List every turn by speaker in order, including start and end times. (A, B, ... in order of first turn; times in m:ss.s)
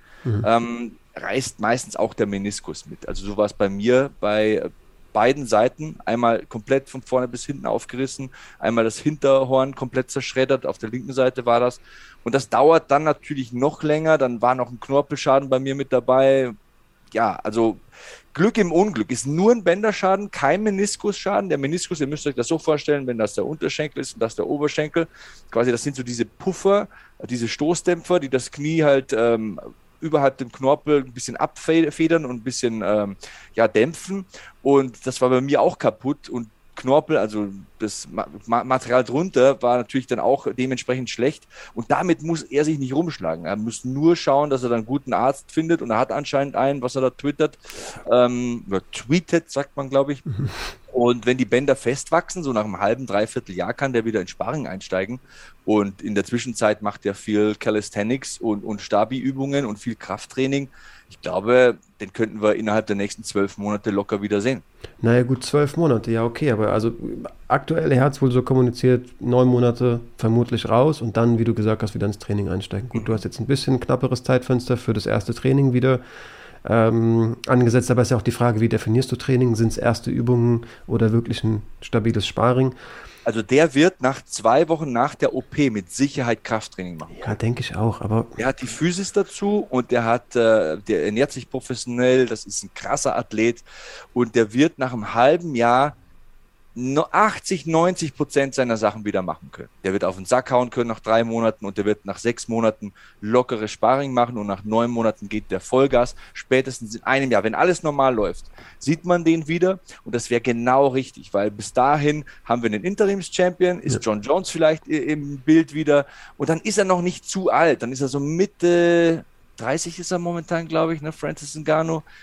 0:00.4-0:16.6 A
0:17.1-0:17.8 A
0:18.3-0:50.2 A
0:50.3-0:50.6 B
0:50.9-1:04.6 A
1:05.0-1:16.0 B
1:16.6-1:22.8 B
1:23.3-1:27.4 A
1:27.1-1:28.4 B
1:28.4-1:33.6 A
1:34.2-1:36.0 A
1:36.8-2:02.0 A